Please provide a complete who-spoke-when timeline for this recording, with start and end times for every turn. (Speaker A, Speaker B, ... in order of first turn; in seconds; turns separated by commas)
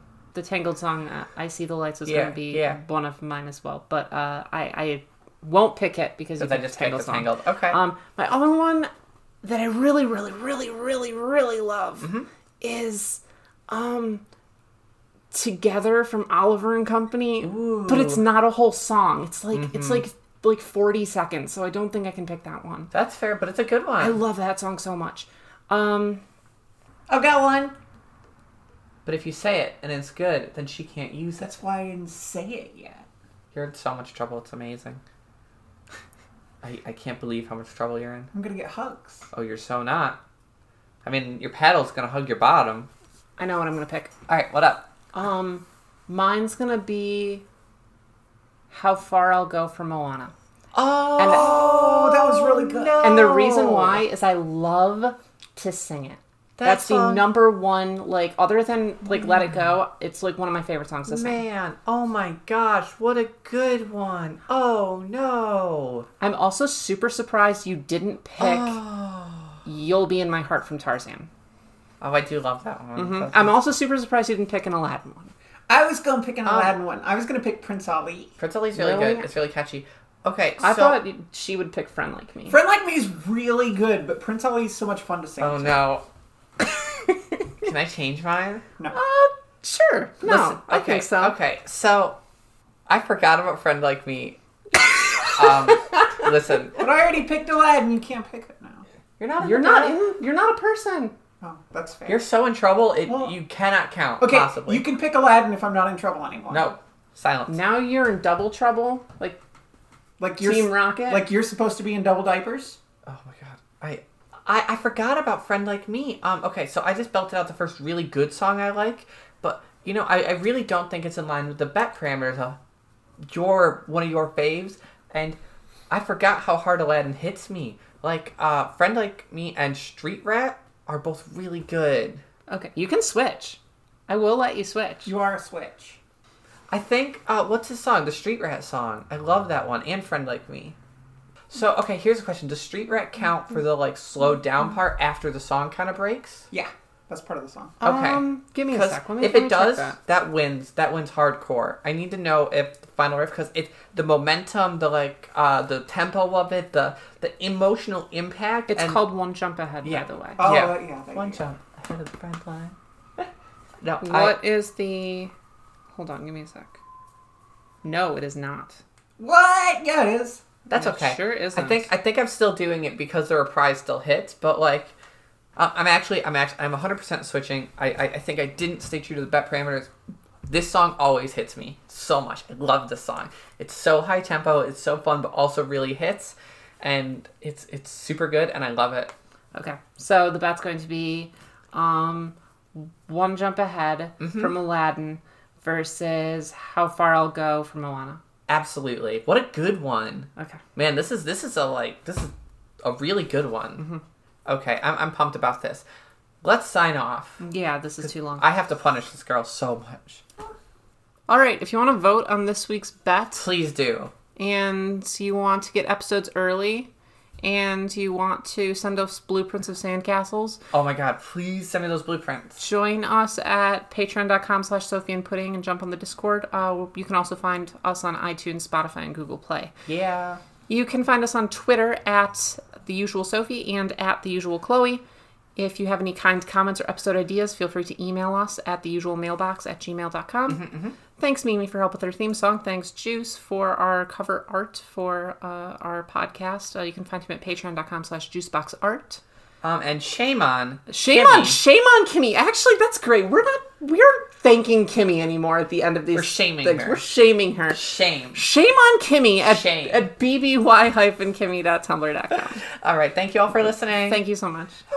Speaker A: 0.3-8.9, Speaker B: 2.0-2.8, Speaker B: 6.4-7.8, Speaker A: 9.4-14.2, Speaker B: 12.0-12.3, Speaker A: 15.3-22.9, Speaker B: 17.4-18.2, Speaker B: 19.5-20.0, Speaker B: 22.9-24.2, Speaker A: 24.0-26.2, Speaker C: 27.1-27.7, Speaker B: 29.0-31.5, Speaker C: 31.4-33.0, Speaker B: 33.5-35.0, Speaker B: 36.6-38.3, Speaker C: 38.3-39.3, Speaker B: 39.3-40.2, Speaker B: 41.0-42.9, Speaker A: 43.4-44.1, Speaker B: 44.3-44.9, Speaker A: 45.1-47.4, Speaker A: 48.7-50.3, Speaker B: 50.7-54.0, Speaker A: 51.2-51.5, Speaker C: 51.2-53.1, Speaker A: 53.0-61.4, Speaker B: 56.6-57.3, Speaker B: 61.1-66.1, Speaker A: 66.2-68.8, Speaker B: 68.4-69.6, Speaker A: 69.6-71.3, Speaker B: 72.0-73.5, Speaker A: 73.0-75.3, Speaker C: 75.7-78.3, Speaker B: 76.5-76.7, Speaker B: 78.4-81.0, Speaker A: 78.7-79.3, Speaker A: 80.6-82.6, Speaker C: 82.5-85.8, Speaker B: 85.4-86.0, Speaker B: 87.6-88.6, Speaker A: 88.9-91.3, Speaker B: 90.2-92.2, Speaker B: 92.9-94.4, Speaker B: 95.3-96.8, Speaker C: 96.7-98.8, Speaker B: 99.2-100.0, Speaker A: 99.4-101.1, Speaker C: 101.4-102.2, Speaker B: 102.1-104.8, Speaker C: 103.1-103.3, Speaker C: 104.2-106.7, Speaker B: 106.5-107.5, Speaker A: 107.5-109.4, Speaker C: 110.2-112.8, Speaker A: 110.4-111.3, Speaker B: 113.0-122.6, Speaker B: 123.2-125.4, Speaker B: 125.9-132.2, Speaker A: 132.5-135.1, Speaker C: 135.0-136.0, Speaker B: 136.7-140.8, Speaker B: 141.5-146.5, Speaker C: 146.5-147.8, Speaker A: 147.8-150.0, Speaker B: 147.8-159.1, Speaker A: 158.7-160.4, Speaker B: 159.8-162.8, Speaker C: 160.4-161.4, Speaker B: 163.8-164.4, Speaker A: 164.0-165.3, Speaker A: 165.9-166.8, Speaker A: 167.8-168.8, Speaker C: 169.2-170.4, Speaker B: 170.7-174.9, Speaker A: 170.7-171.9, Speaker B: 175.6-179.9, Speaker B: 180.4-189.1, Speaker A: 189.5-198.2, Speaker B: 194.2-194.5, Speaker B: 198.5-203.8, Speaker B: 204.4-205.8, Speaker B: 206.4-207.4, Speaker A: 207.4-208.4, Speaker B: 208.0-210.2, Speaker A: 211.3-213.4, Speaker B: 213.3-214.1, Speaker A: 214.3-216.9, Speaker A: 217.4-220.6, Speaker B: 220.7-222.6, Speaker A: 222.6-229.7, Speaker B: 229.8-230.4, Speaker A: 230.7-235.0, Speaker A: 235.6-240.6, Speaker B: 240.5-241.0, Speaker A: 241.2-249.2, Speaker B: 249.6-251.6, Speaker A: 250.9-262.6, Speaker B: 256.1-257.1, Speaker B: 257.7-258.4, Speaker B: 259.4-260.0, Speaker B: 262.8-264.2, Speaker A: 264.0-264.8